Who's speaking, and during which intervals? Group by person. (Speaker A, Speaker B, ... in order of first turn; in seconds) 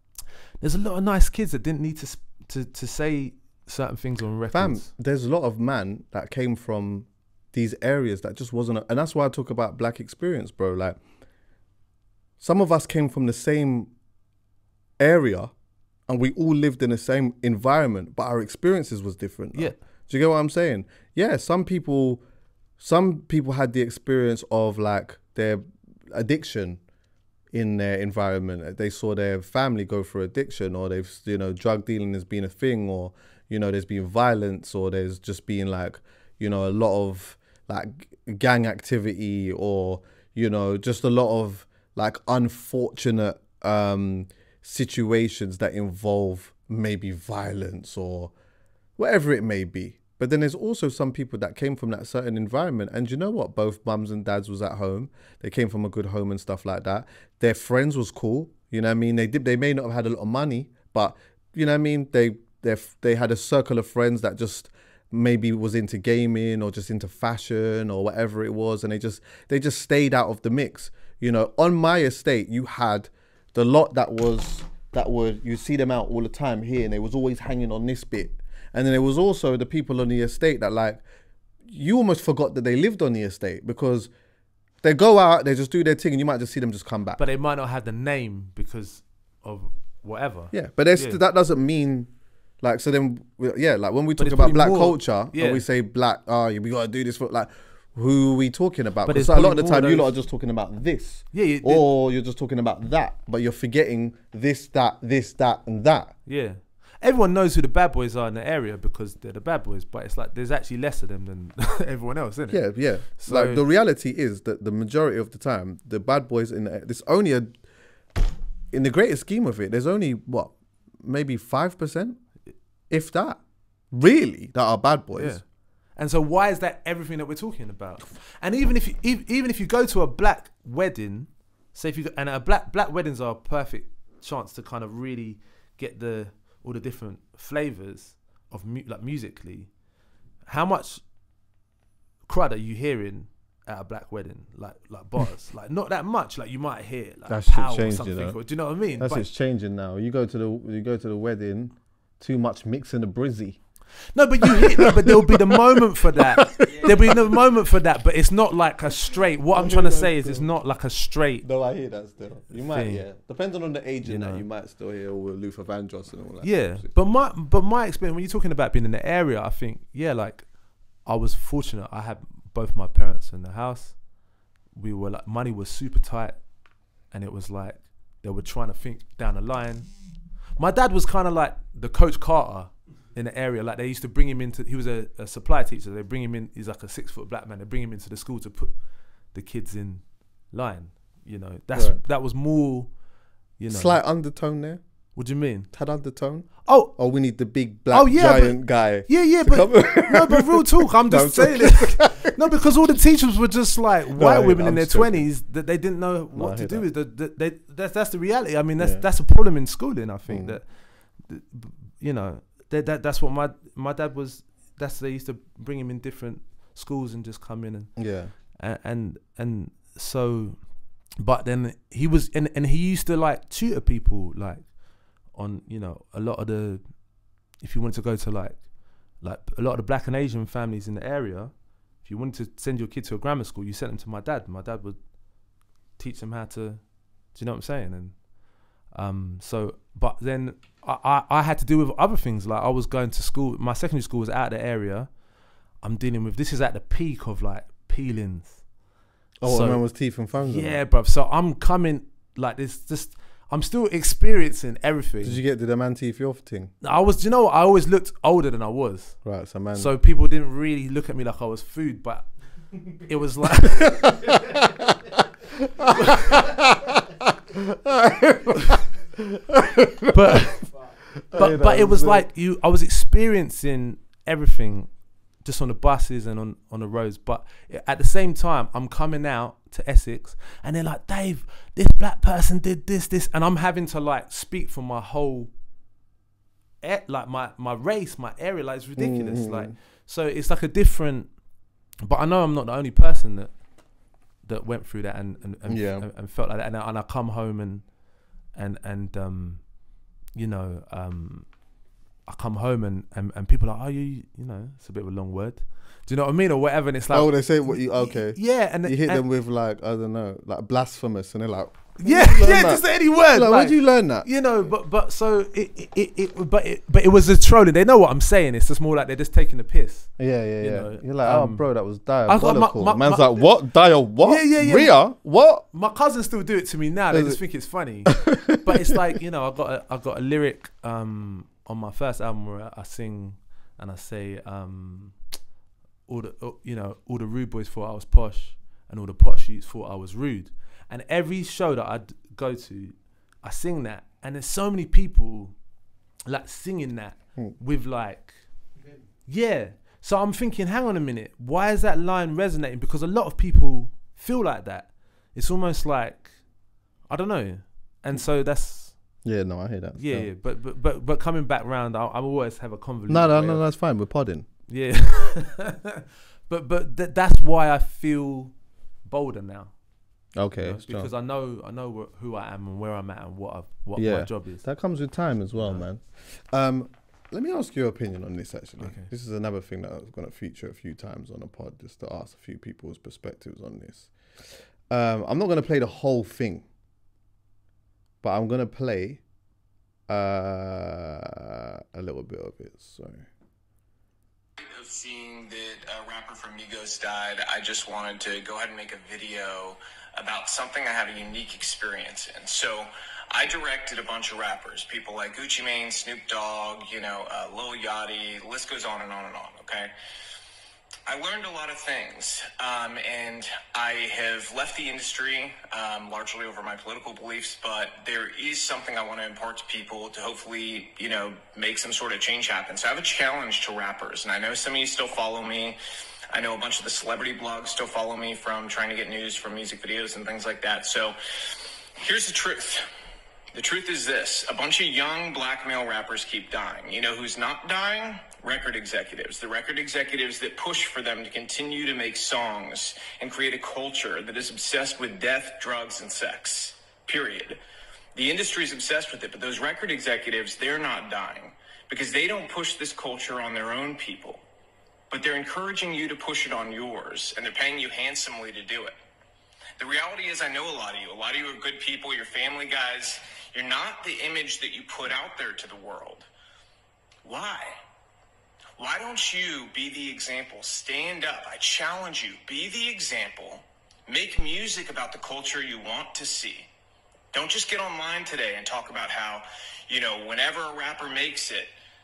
Speaker A: 0.6-4.9, 87.2-91.2, 94.2-95.6, 99.0-100.1, 101.3-101.9, 106.2-113.6, 125.1-125.4, 126.0-139.7, 140.4-141.0, 142.2-149.2, 154.1-161.4, 162.6-163.0, 164.0-164.4, 166.4-170.5, 171.0-174.0, 174.7-176.5, 177.1-179.9, 180.6-188.8, 189.3-193.0, 193.6-194.0, 195.1-195.7, 196.6-196.9, 197.9-227.0, 227.5-235.1, 235.9-238.3, 238.8-245.1, 245.8-248.6, 249.4-249.8, 250.4-255.4, 256.8-264.1, 265.9-266.1, 270.1-270.7, 271.3-285.5, 286.8-291.4, 292.0-293.6, 294.4-297.9, 298.5-299.7, 300.3-301.6, 302.2-309.2, 312.0-321.7, 322.2-323.5, 324.2-324.9, 325.6-335.2, 336.1-345.6, 346.3-348.4, 349.2-356.4, 357.1-359.2, 360.0-363.6, 364.7-369.8, 370.6-374.6, 375.5-375.8, 378.8-379.1
Speaker B: 4.5-11.0, 12.4-13.9, 15.0-15.5, 16.1-22.2, 22.8-26.8, 27.5-48.3, 49.0-81.0, 81.7-84.1, 84.8-87.2, 90.5-92.1, 92.6-106.1, 112.5-117.5, 118.7-122.2, 122.9-123.4, 123.9-125.4, 147.3-148.4, 149.0-153.6, 154.4-157.4, 159.5-160.4, 161.4-166.9, 191.7-192.0, 193.7-194.8, 195.7-202.3, 204.1-205.3, 206.3-206.8, 208.8-209.0, 210.3-210.6, 218.0-218.3, 249.4-250.8, 255.2-256.7, 259.2-259.9, 263.8-265.2, 265.8-268.8, 269.3-270.4, 271.3-272.2, 289.0-289.7, 295.6-296.1, 307.1-314.3, 320.2-325.6, 327.1-327.4, 328.1-329.0, 359.2-360.3, 363.1-364.4, 370.4-371.1, 373.9-386.6, 388.2-389.2, 390.1-393.2
Speaker C: 394.6-409.9, 411.1-425.8, 426.3-432.8, 433.5-447.6, 448.1-454.4, 455.1-459.0, 459.8-466.3, 467.2-467.8, 468.8-476.7, 477.3-481.7